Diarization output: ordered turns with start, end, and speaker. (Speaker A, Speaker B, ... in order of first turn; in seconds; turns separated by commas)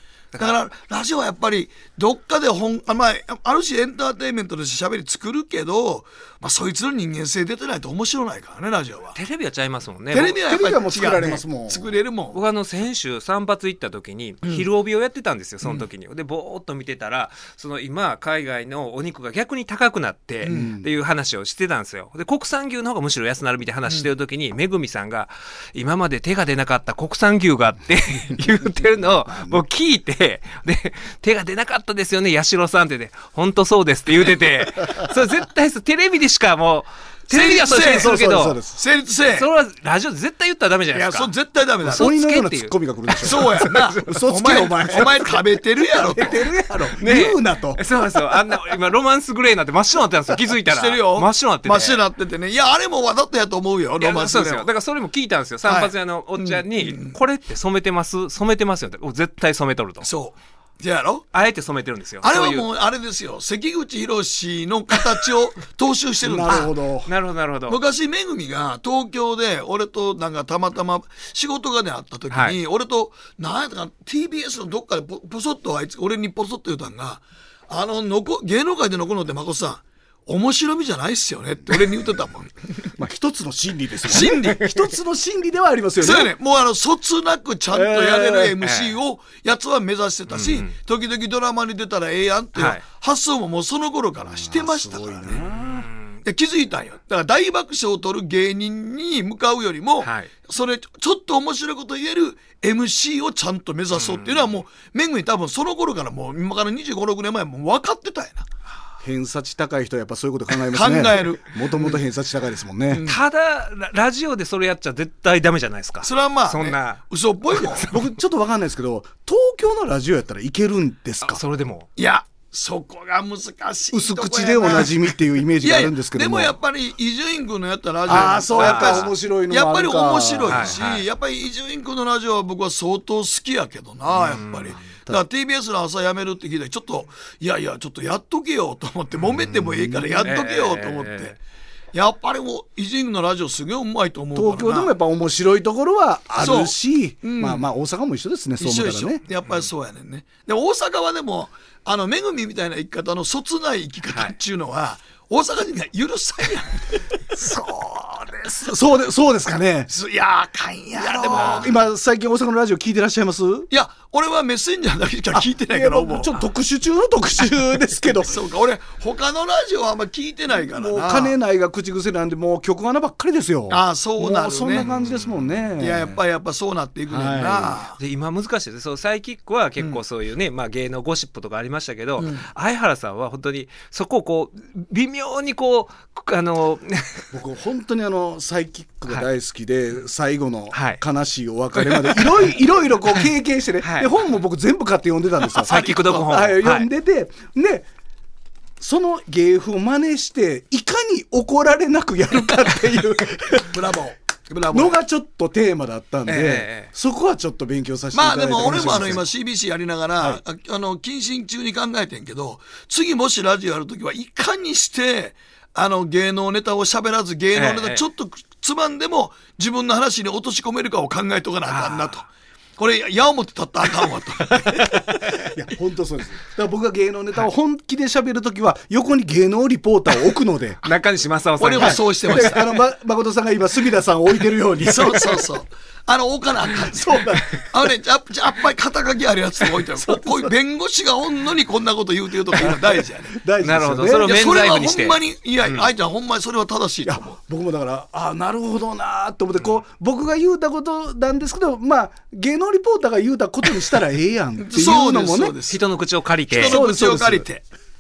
Speaker A: 0.4-9.2, Speaker B: 9.2-10.4, Speaker A: 10.1-12.4, Speaker C: 10.4-11.9, Speaker B: 12.3-38.6, Speaker A: 20.4-20.7, Speaker C: 20.5-20.9, Speaker C: 29.3-29.6, Speaker A: 37.3-38.1, Speaker C: 37.8-38.8, Speaker A: 38.8-39.5, Speaker B: 39.3-41.3, Speaker A: 40.9-42.1, Speaker C: 41.8-45.4, Speaker B: 41.9-44.2, Speaker A: 43.2-46.4, Speaker C: 45.9-47.8, Speaker B: 47.0-52.0, Speaker A: 50.6-54.7, Speaker B: 54.0-60.1, Speaker A: 55.6-57.2, Speaker A: 60.0-61.3, Speaker B: 61.3-62.7, Speaker A: 62.2-66.7, Speaker C: 66.2-67.1, Speaker B: 66.5-67.8, Speaker A: 67.7-82.9, Speaker B: 72.3-72.6, Speaker C: 83.0-86.3, Speaker A: 84.0-84.7, Speaker A: 86.0-95.5, Speaker C: 87.7-88.6, Speaker B: 88.6-89.0, Speaker B: 90.3-90.7, Speaker B: 92.5-92.8, Speaker C: 94.2-95.8, Speaker B: 95.3-96.2, Speaker A: 96.2-108.5, Speaker B: 100.0-100.3, Speaker B: 104.0-104.5, Speaker C: 109.0-113.1, Speaker A: 110.7-111.6, Speaker A: 112.9-113.2, Speaker B: 113.0-117.0, Speaker A: 116.0-117.9, Speaker B: 117.6-118.0, Speaker C: 117.9-121.4, Speaker B: 121.2-121.9, Speaker A: 122.0-141.4, Speaker C: 123.9-126.5, Speaker C: 128.1-130.8, Speaker B: 128.5-129.1, Speaker B: 130.5-131.1, Speaker B: 134.3-134.8, Speaker C: 139.5-140.2, Speaker B: 140.2-141.4, Speaker A: 141.9-144.9, Speaker C: 144.3-149.2, Speaker A: 146.4-147.7, Speaker A: 148.6-158.8, Speaker C: 157.3-157.7, Speaker C: 158.7-159.9, Speaker A: 159.9-161.8, Speaker C: 161.0-163.7, Speaker B: 161.3-161.8, Speaker A: 163.7-166.3, Speaker C: 165.3-168.4, Speaker A: 168.3-171.3, Speaker C: 170.6-176.2, Speaker A: 173.7-174.9, Speaker B: 174.8-175.4, Speaker A: 175.8-178.0, Speaker C: 177.1-177.8, Speaker B: 178.0-187.3, Speaker A: 182.2-182.5, Speaker C: 187.3-197.9, Speaker B: 190.7-191.0, Speaker B: 193.8-194.1, Speaker A: 195.6-196.2, Speaker B: 195.6-196.9, Speaker C: 198.8-203.8, Speaker A: 203.6-205.0, Speaker C: 204.7-209.3, Speaker B: 206.3-206.9, Speaker A: 208.1-222.3, Speaker B: 217.6-218.0, Speaker B: 221.7-222.2, Speaker A: 222.8-225.5, Speaker C: 224.8-230.8, Speaker B: 230.8-232.5, Speaker A: 231.6-232.7, Speaker C: 231.8-235.5, Speaker A: 234.8-243.4, Speaker C: 236.9-237.9, Speaker C: 240.0-240.5, Speaker C: 242.6-244.3, Speaker B: 243.6-245.9, Speaker A: 244.2-247.4, Speaker C: 247.1-255.6, Speaker A: 254.6-255.8, Speaker B: 255.7-256.8, Speaker A: 256.5-257.7, Speaker C: 256.6-257.5